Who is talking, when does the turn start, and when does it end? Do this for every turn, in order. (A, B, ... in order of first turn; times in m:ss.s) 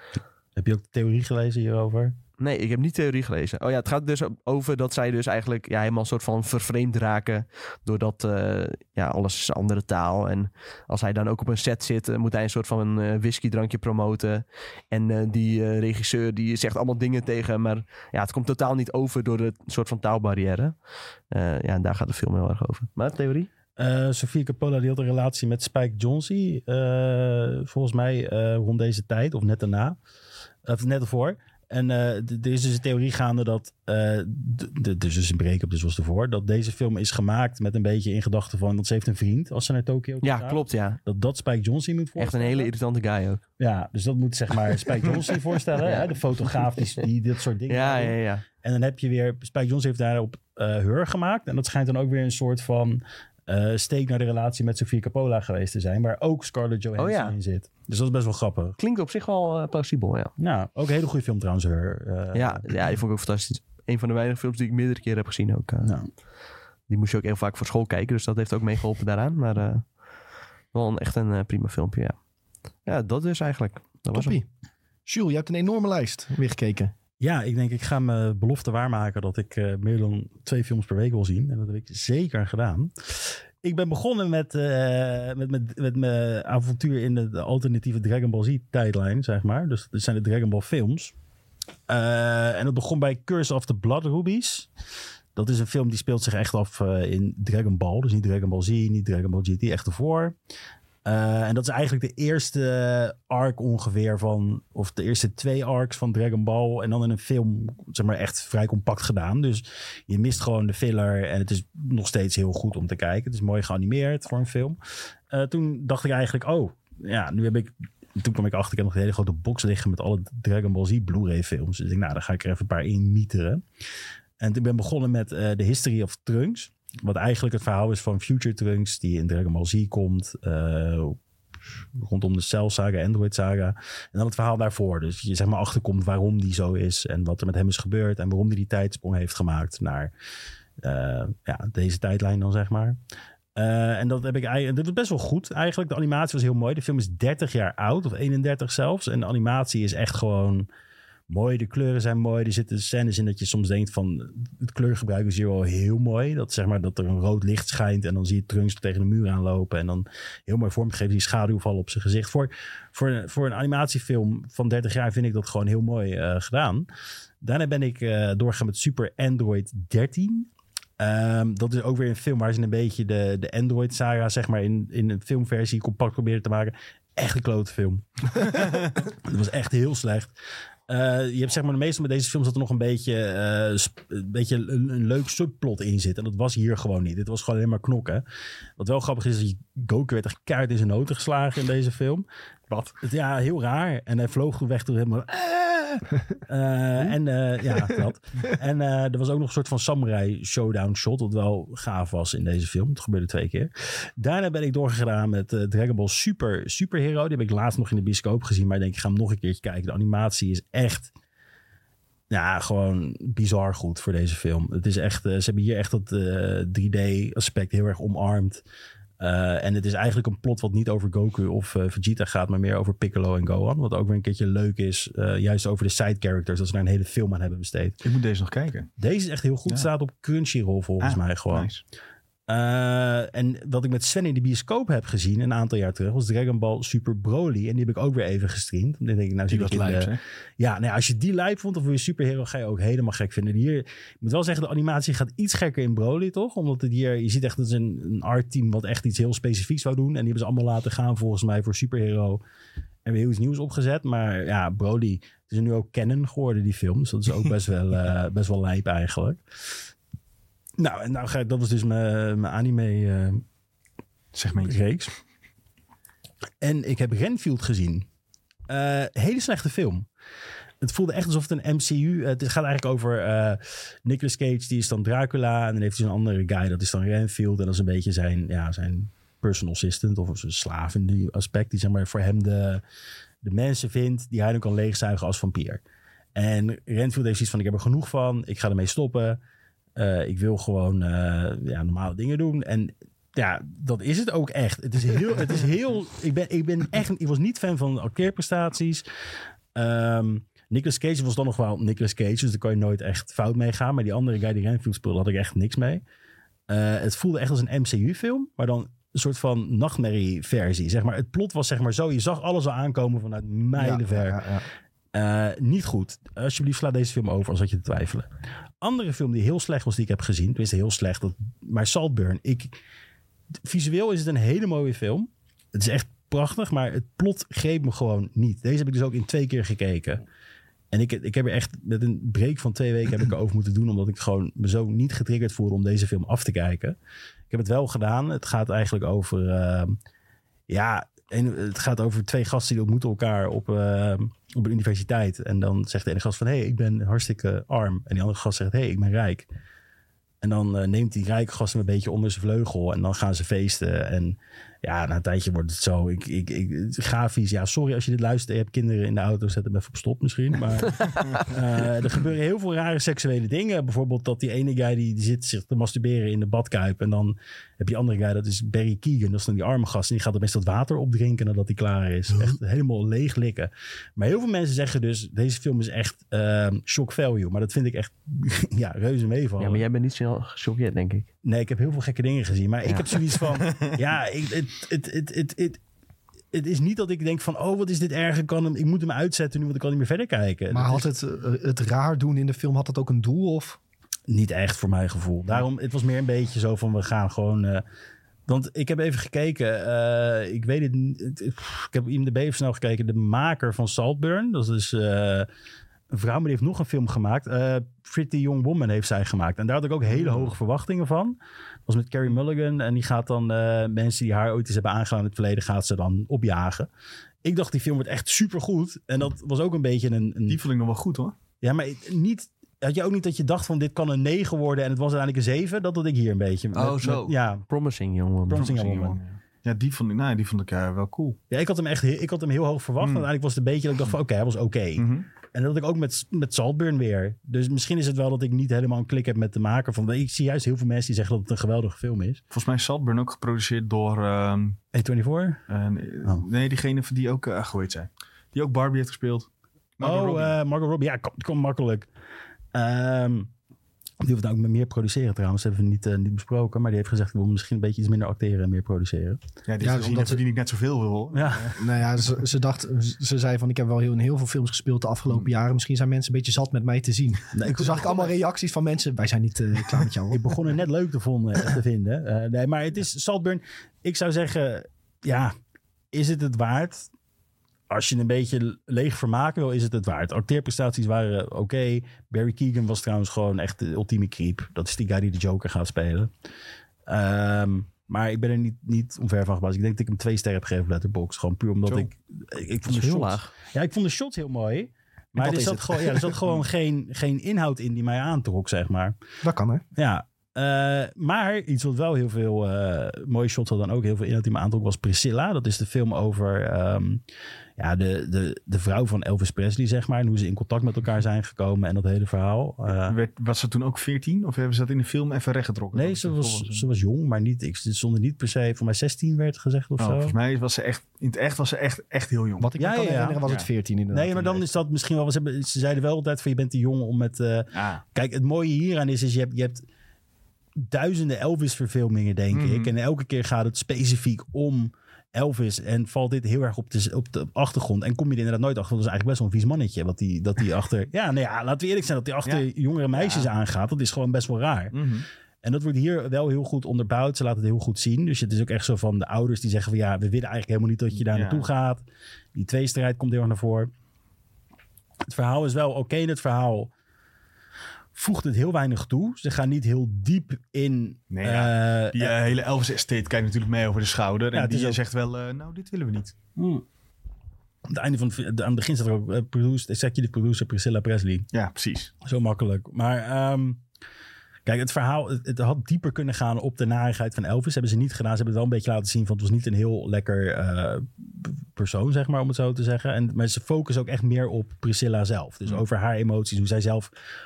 0:00.6-0:02.2 A
0:02.4-0:20.7 B
0:21.3-0:23.5 B
0:23.8-0:30.0 A
0:30.6-0:42.7 A
0:40.2-0:41.0 B
0:42.2-0:43.4 B
0:43.6-0:58.8 A
0:45.8-0:46.6 B
0:47.7-0:48.4 B
0:57.0-0:57.4 B
0:58.8-1:00.3 B
1:00.4-1:02.7 A
1:02.3-1:06.0 B
1:05.8-1:06.1 A
1:06.9-1:09.9 B
1:10.7-1:12.2 B
1:12.9-1:14.4 B
1:14.1-1:14.5 C
1:15.1-1:16.9 C
1:17.2-1:31.1 A
1:31.9-1:34.7 A
1:35.4-1:40.4 A
1:41.0-1:54.8 A
1:55.3-2:03.6 A
2:04.4-2:11.2 A
2:12.0-2:20.1 A
2:20.8-2:23.0 A
2:23.6-2:30.7 A
2:31.3-2:46.9 A
2:47.4-2:50.5 A
2:51.0-3:00.3 A
3:00.9-3:08.2 A
3:08.8-3:12.3 A
3:13.0-3:31.1 A
3:32.3-3:38.6 A
3:39.2-3:48.0 A
3:48.0-3:48.9 D
3:49.0-3:51.7 A
3:51.0-3:51.8 D
3:52.5-4:12.4 A
3:59.5-4:00.2 D
4:13.0-4:19.4 A
4:20.8-4:23.4 A
4:24.3-4:24.8 D
4:24.6-4:25.1 A
4:26.6-4:28.1 A
4:28.7-4:30.1 A
4:30.8-4:42.8 A
4:43.4-4:45.8 A
4:46.4-4:49.4 A
4:50.0-4:59.0 A
4:59.8-5:06.0 A
5:06.7-5:14.4 A
5:13.8-5:14.6 C
5:15.1-5:18.3 A
5:18.8-5:22.8 A
5:23.6-5:30.2 A
5:30.9-5:37.0 A
5:37.5-5:40.0 A
5:40.7-5:49.5 A
5:50.4-6:19.8 A
6:19.6-6:21.3 B
6:21.4-6:25.8 A
6:22.8-6:23.2 B
6:23.6-6:23.9 D
6:26.5-6:31.1 A
6:30.7-6:33.8 C
6:34.3-6:37.8 A
6:38.5-6:45.5 A
6:46.1-6:56.9 A
6:57.4-7:00.6 A
7:00.5-7:01.4 D
7:01.6-7:07.7 A
7:06.8-7:08.8 B
7:06.9-7:07.3 D
7:08.5-7:09.2 A
7:08.5-7:11.4 D
7:11.5-7:22.4 A
7:13.0-7:13.3 D
7:15.0-7:15.3 D
7:22.5-7:24.8 D
7:24.9-7:25.6 A
7:25.7-7:30.5 D
7:30.0-7:32.1 A
7:32.7-7:33.5 A
7:34.2-7:39.4 A
7:39.7-7:41.8 D
7:39.8-7:40.4 C
7:41.3-7:41.7 A
7:41.8-7:50.4 C
7:47.5-7:48.3 A
7:50.3-7:55.5 A
7:56.1-7:57.1 A
7:57.9-8:06.3 A
8:07.1-8:19.2 A
8:12.9-8:13.5 B
8:15.4-8:16.3 C
8:19.4-8:19.8 C
8:20.0-8:27.2 A
8:27.8-8:33.2 A
8:33.1-8:36.8 D
8:35.9-8:40.4 A
8:40.0-8:42.7 D
8:42.6-8:44.6 C
8:42.8-8:43.4 A
8:44.1-8:49.8 A
8:47.7-8:48.0 D
8:50.8-9:05.0 A
8:52.5-8:52.9 D
9:02.4-9:03.5 D
9:04.9-9:05.3 D
9:05.6-9:12.0 A
9:11.3-9:11.6 D
9:12.6-9:13.9 A
9:15.3-9:16.9 A
9:18.2-9:22.4 A
9:21.3-9:26.4 D
9:24.5-9:25.0 A
9:26.6-9:26.8 A
9:27.9-9:31.5 A
9:31.5-9:32.1 D
9:32.2-9:33.8 A
9:34.6-9:47.1 A